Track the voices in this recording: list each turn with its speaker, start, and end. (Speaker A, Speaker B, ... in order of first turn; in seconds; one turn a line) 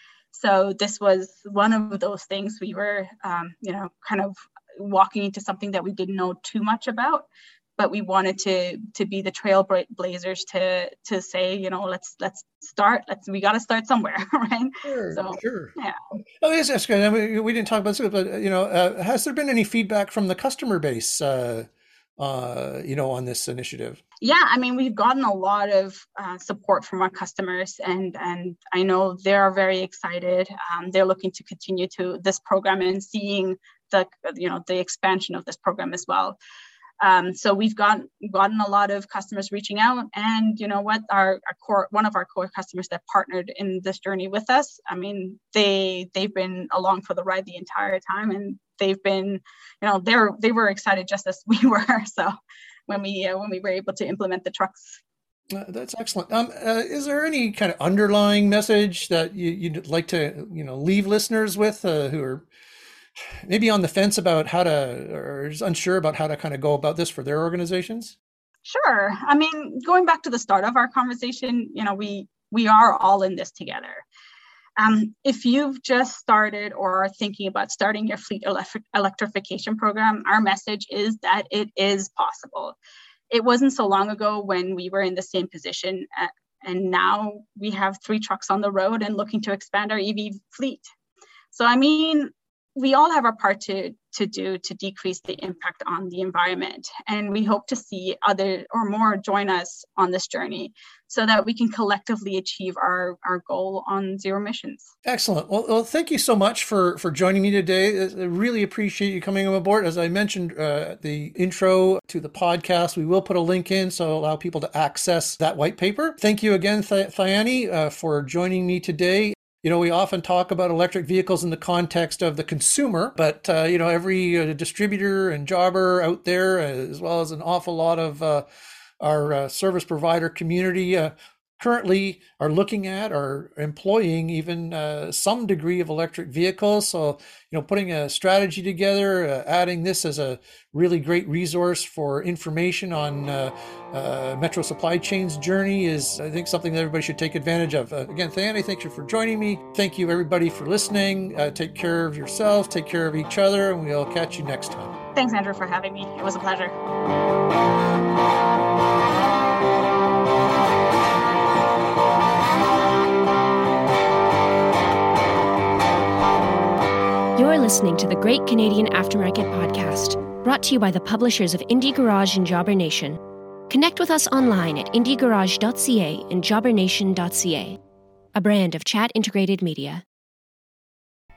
Speaker A: 0.3-7.3
Speaker A: 7.8-16.0
Speaker B: 14.8-15.7
Speaker B: 16.4-21.7
Speaker B: 22.2-24.0
Speaker A: 24.2-36.4
Speaker A: 37.0-52.3
Speaker A: 52.9-55.0
Speaker B: 55.5-62.5
Speaker B: 63.5-68.2
Speaker A: 68.7-74.0
Speaker A: 74.8-82.8
Speaker A: 83.3-90.8
Speaker A: 91.5-104.9
Speaker B: 105.0-128.4
Speaker B: 129.0-155.0
Speaker A: 155.2-156.7
Speaker C: 167.4-177.8
Speaker C: 178.4-180.0